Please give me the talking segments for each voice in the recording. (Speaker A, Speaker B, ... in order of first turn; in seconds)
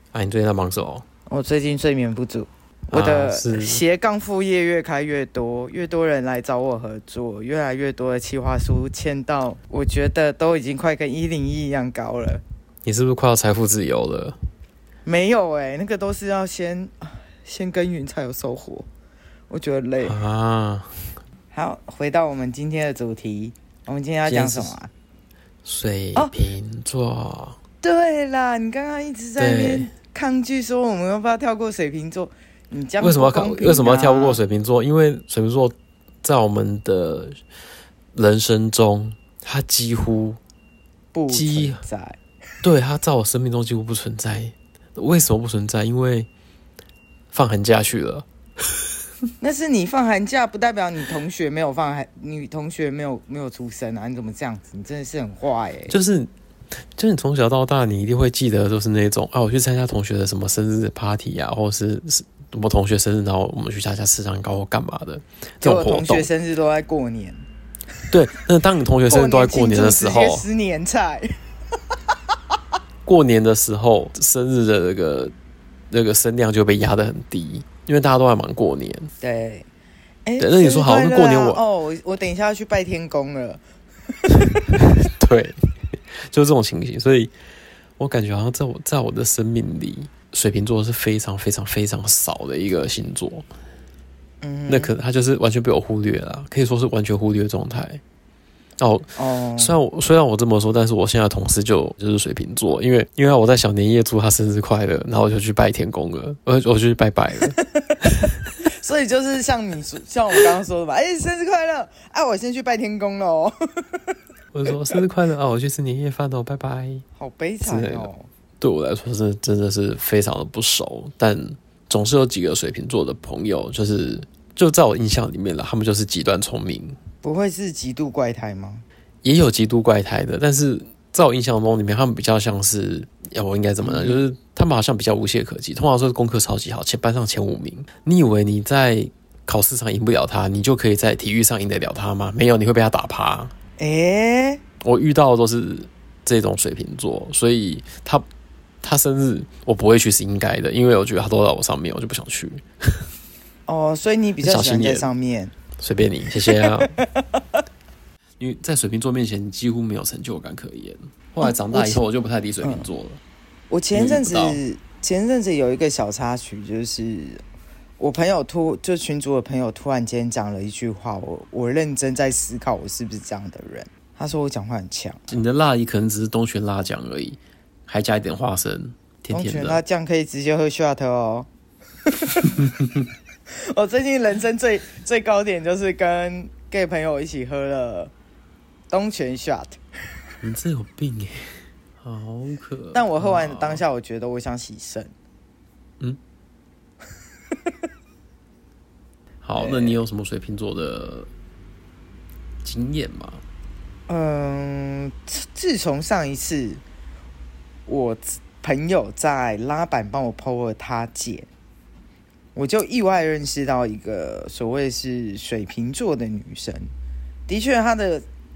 Speaker A: 0.1-1.0, 2.9-3.8, 12.8-14.4, 20.0-20.9, 24.2-24.8, 25.6-27.6, 29.4-29.9, 33.0-37.4, 38.1-40.4, 41.3-41.8, 42.6-46.3, 47.3-48.2, 55.9-56.3, 56.9-66.3, 68.1-70.4, 73.0-75.3, 75.9-79.1, 80.4-81.6, 85.0-87.3, 88.0-93.5, 94.7-98.0, 98.8-107.5, 114.5-117.0, 117.6-118.1, 118.6-127.0, 129.2-143.5, 144.8-148.2, 148.8-153.1, 154.4-155.1, 155.8-156.9, 158.4-163.2, 163.9-164.6, 175.3-179.8, 190.4-193.8, 199.4-201.3, 202.6-203.4
Speaker B: 1.3-12.4, 15.0-18.9, 19.5-20.2, 21.5-24.9, 27.8-34.4, 41.1-42.2, 49.4-56.0, 65.6-67.5, 69.1-71.3, 79.2-79.7, 80.2-83.6, 94.4-94.9, 99.2-99.8, 108.7-114.0, 117.2-118.3, 127.2-128.8, 133.8-134.2, 143.8-144.6, 153.7-155.5, 156.6-157.4, 161.4-162.0, 162.6-162.9, 163.7-167.4, 168.0-175.3, 179.3-181.5, 182.2-182.6, 183.7-188.1, 188.9-189.8, 192.9-195.1, 199.6-200.0, 204.1-206.8, 207.9-211.5, 212.5-216.9, 217.5-218.2